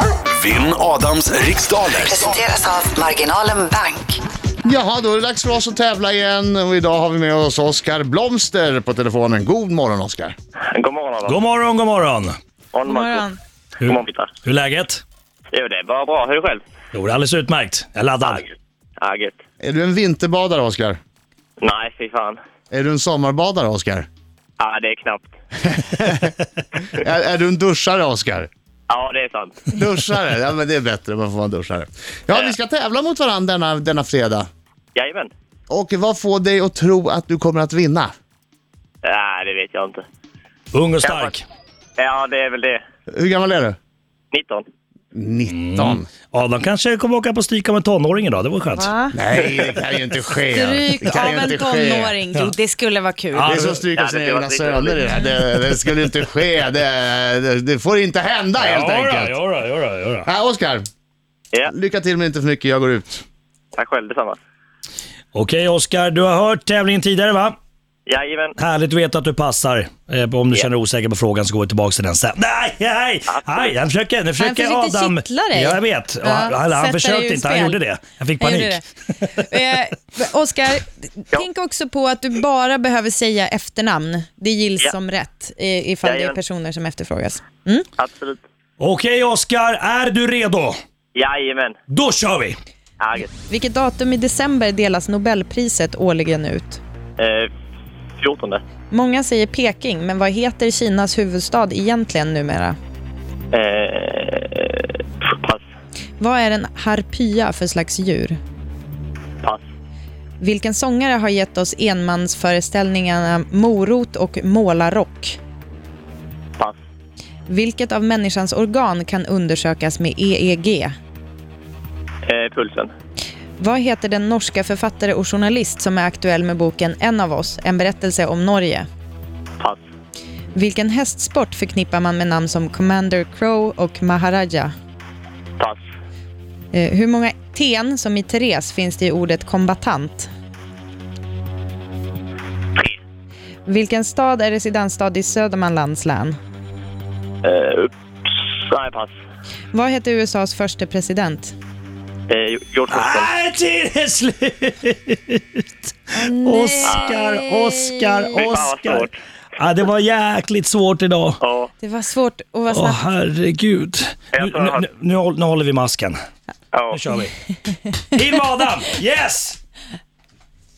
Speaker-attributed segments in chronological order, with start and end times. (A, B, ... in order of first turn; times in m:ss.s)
0:00.3-0:02.4 A
0:02.0-0:04.2 B
0:04.6-0:10.4 C
0:10.7-0:11.4 D
0:11.2-0:12.4 E
0:12.7-0:13.3 D
0:12.9-0:13.4 F
0:13.8-0:14.3 D
0:13.8-0:15.0 E
0:15.5-0:16.6 D
0:16.9-0:18.4 E
0:18.3-0:19.4 D
0:19.6-0:21.0 C
0:21.6-0:22.4 D
0:22.7-0:24.1 C
0:24.6-0:25.3 D
0:25.7-0:26.3 C
0:26.9-0:28.5 C
0:28.9-0:29.7 D
0:29.7-0:34.5 C
0:34.9-0:35.3 D
0:35.7-0:38.1 C
0:39.0-0:40.0 D
0:40.7-0:41.4 E
0:41.0-0:41.3 D
0:42.0-0:42.8 D
0:43.1-0:43.8 C
0:44.3-0:44.6 D
0:45.1-0:46.1 C
0:45.5-0:48.9 E
0:48.8-0:49.2 F
0:49.1-0:52.1 C
0:50.5-0:53.5 F
0:53.3-0:53.8 E
0:53.5-0:59.4 C
0:54.0-0:55.0 D
0:58.6-1:00.3 E
1:00.2-1:00.8 C
1:01.7-1:03.2 C
1:03.8-1:04.4 D
1:05.3-1:07.6 E
1:08.1-1:08.6 D
1:08.6-1:18.8 E
1:13.3-1:13.7 D
1:14.4-1:17.8 F
1:18.4-1:27.8 F
1:26.0-1:26.4 D
1:28.0-1:28.4 D
1:28.8-1:30.8 E
1:31.1-1:31.8 D
1:31.9-1:32.6 E
1:33.0-1:33.3 D
1:33.5-1:36.8 F
1:37.2-1:37.5 D
1:38.2-1:38.6 D
1:38.9-1:42.8 F
1:43.5-1:45.6 D
1:46.2-1:48.4 F
1:50.4-1:55.4 F
1:57.5-2:00.9 F
2:02.3-2:02.9 D
2:03.6-2:08.9 F
2:10.6-2:14.7 F
2:16.7-2:20.3 F
2:23.7-2:26.4 F
2:27.4-2:29.1 D
2:29.7-2:31.5 F
2:32.3-2:33.3 D
2:32.9-2:41.4 E
2:36.1-2:38.2 F
2:36.8-2:37.2 D
2:38.3-2:39.2 D
2:41.4-2:41.7 D
2:41.8-2:43.0 F
2:42.7-2:46.2 E
2:44.3-2:44.8 D
2:46.7-2:47.0 D
2:46.9-2:47.3 E
2:48.2-2:49.6 E